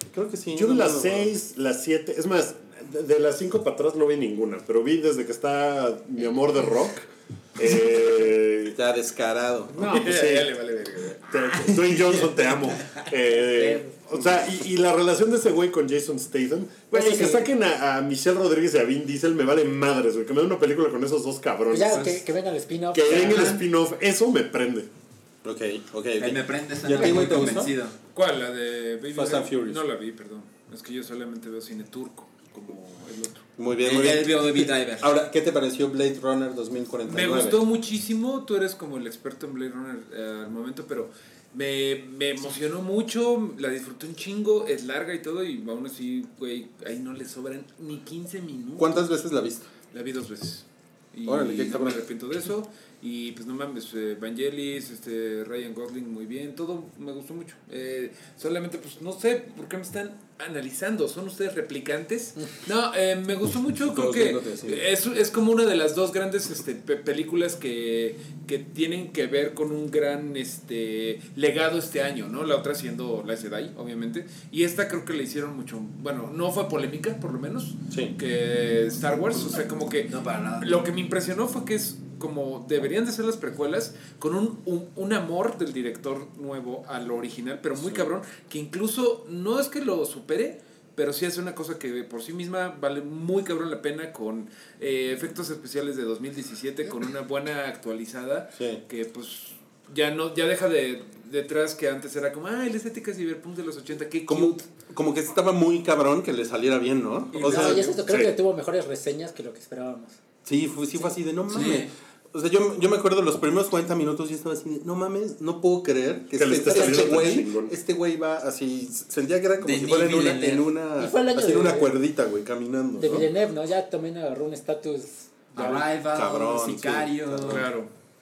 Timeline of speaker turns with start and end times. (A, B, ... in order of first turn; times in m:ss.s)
0:00.1-0:01.3 A
0:00.5-0:08.8 B
0:08.7-0:10.0 A
0:09.7-0:10.5 B
0:09.8-0:11.2 C
0:11.3-0:22.2 B
0:11.6-0:11.9 D
0:16.9-0:17.5 E
0:21.7-0:23.6 E
0:22.9-0:24.9 B
0:23.0-0:23.6 D
0:25.4-0:27.8 A
0:26.2-0:28.0 D
0:28.1-0:33.5 C
0:29.1-0:29.8 A
0:33.6-0:37.6 A
0:33.8-0:35.1 D
0:37.1-0:49.1 C
0:48.8-0:49.7 A
0:49.9-1:44.7 C
0:51.3-0:52.0 A
1:03.8-1:04.9 A
1:17.9-1:18.2 A
1:20.0-1:20.8 D
1:27.8-1:28.1 A
1:38.6-1:38.8 A
1:44.3-1:47.9 A
1:47.3-1:48.0 C
1:47.4-1:50.2 E
1:48.1-1:48.4 B
1:50.4-2:03.3 A
1:51.5-1:51.9 D
1:56.4-1:57.7 B
1:56.6-1:57.4 E
1:59.6-2:00.7 D
2:01.0-2:02.0 E
2:03.0-2:05.9 E
2:05.5-2:07.7 D
2:06.1-2:07.7 A
2:07.5-2:07.9 C